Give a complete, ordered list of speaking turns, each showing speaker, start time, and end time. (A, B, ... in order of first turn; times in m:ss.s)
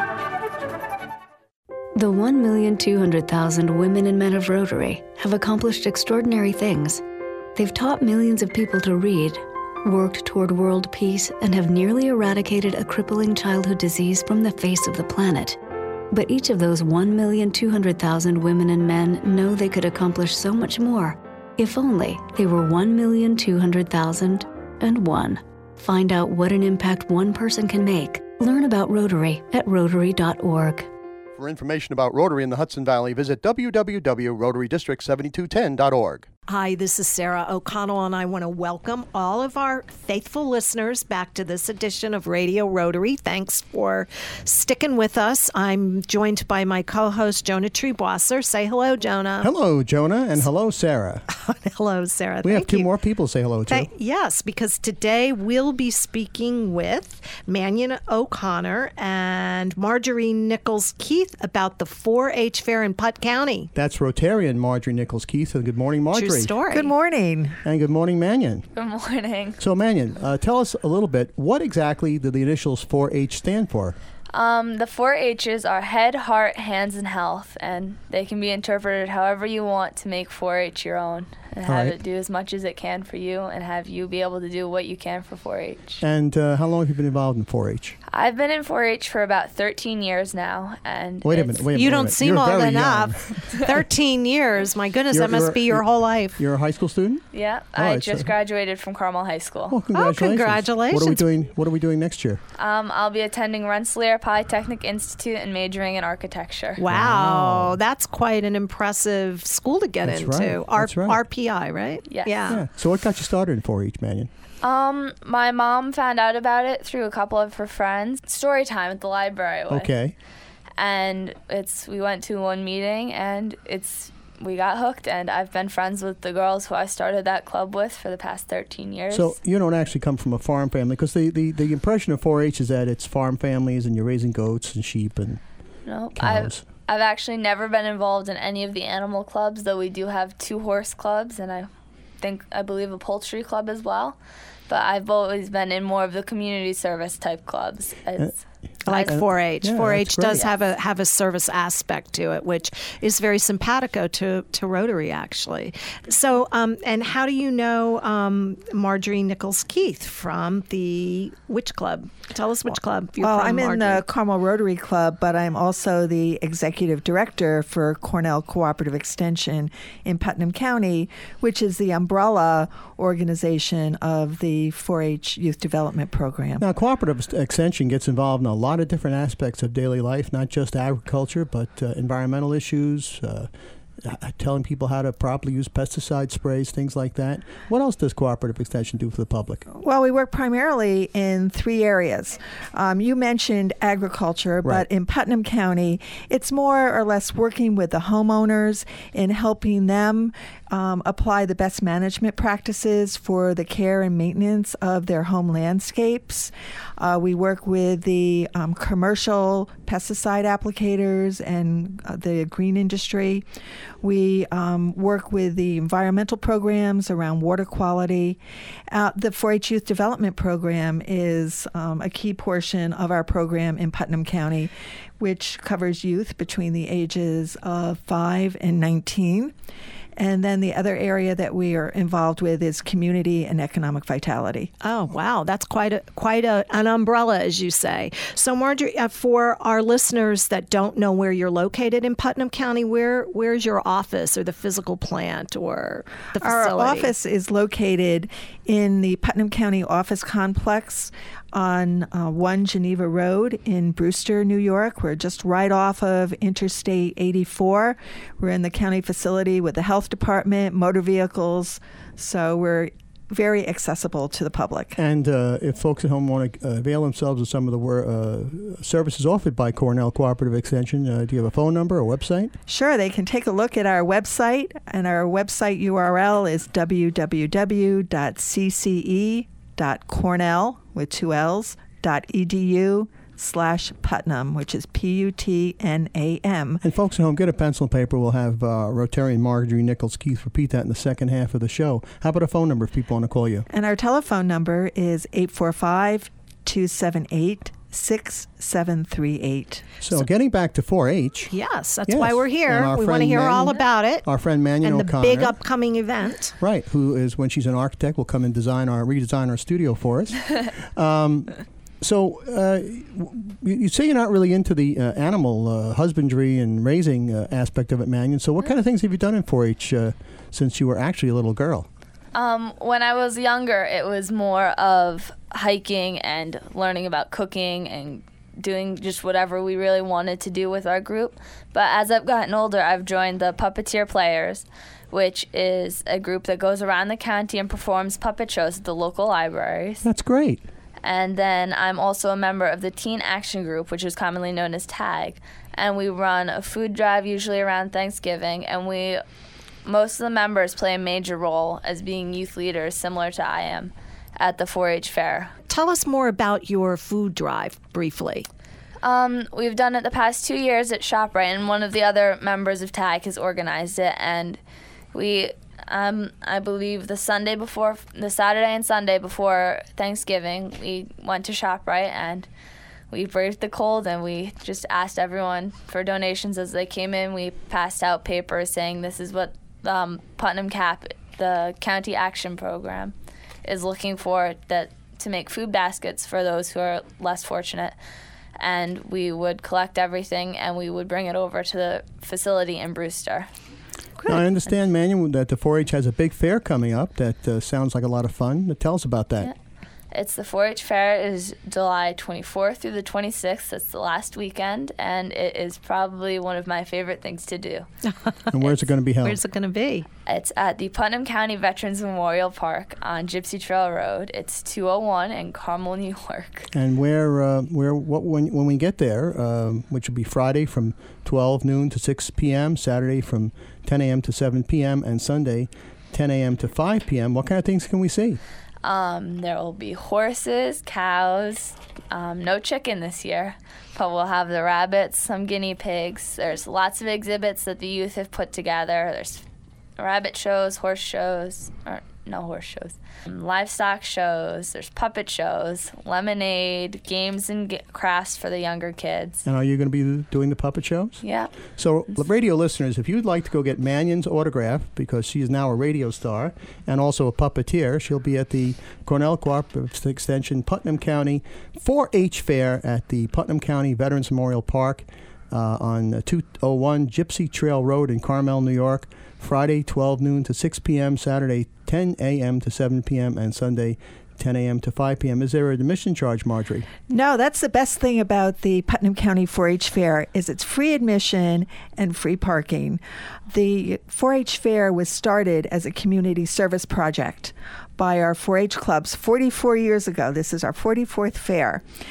0:02.0-0:07.0 A
0:07.6-0:15.6 A
0:16.1-0:30.9 A
0:31.4-0:36.3 B
0:36.5-0:49.5 C
0:49.4-0:51.2 B
0:51.3-0:52.9 C
0:52.4-0:53.9 B
0:53.7-1:03.7 C
1:03.8-1:06.5 B
1:06.1-1:06.9 C
1:06.7-1:07.6 D
1:07.6-1:08.7 B
1:08.8-1:09.6 E
1:09.6-1:14.0 B
1:14.3-1:26.0 E
1:21.7-1:22.0 B
1:26.0-1:28.0 B
1:28.1-1:31.7 E
1:31.2-1:33.7 B
1:31.7-1:36.4 C
1:35.1-1:35.8 B
1:36.4-1:37.2 B
1:37.3-1:39.8 E
1:37.8-1:38.3 B
1:39.7-1:42.4 B
1:39.9-1:41.3 C
1:42.6-1:46.8 E
1:46.8-1:52.6 C
1:46.9-1:47.8 B
1:50.0-1:51.2 B
1:52.1-1:52.6 E
1:52.5-1:54.3 B
1:54.6-1:59.9 E
1:59.7-2:00.2 B
2:00.8-2:09.3 E
2:09.1-2:15.4 B
2:15.9-2:21.7 E
2:16.2-2:16.6 B
2:22.2-2:24.2 E
2:24.7-2:28.4 E
2:28.9-2:44.0 C
2:28.9-2:30.5 B
2:43.2-2:56.6 D
2:56.6-3:03.5 B
3:04.0-3:09.7 B
3:09.7-3:33.5 D
3:34.0-3:38.4 D
3:38.9-3:49.5 D
3:50.2-3:54.7 D
3:54.8-4:07.1 C
4:06.4-4:25.0 D
4:25.0-4:32.5 B
4:32.7-4:46.8 D
4:46.8-4:53.7 B
4:53.7-4:59.9 D
5:00.0-5:01.5 B
5:01.5-5:04.2 C
5:02.1-5:05.6 B
5:04.8-5:06.6 C
5:06.6-5:21.9 B
5:22.4-5:40.0 E
5:40.0-5:40.6 B
5:41.0-5:49.2 E
5:49.9-5:55.5 E
5:55.7-5:58.5 C
5:59.0-6:04.6 E
6:05.1-6:12.5 E
6:13.1-6:28.0 E
6:28.6-6:33.5 E
6:34.3-6:39.5 B
6:40.1-6:47.9 E
6:48.1-6:48.4 C
6:48.5-6:49.4 B
6:49.2-6:50.1 C
6:50.3-6:56.7 E
6:56.7-7:08.4 B
7:08.8-7:19.4 E
7:20.0-7:29.4 E
7:29.4-7:31.2 B
7:31.2-7:31.5 E
7:31.8-7:56.9 B
7:57.1-8:11.8 D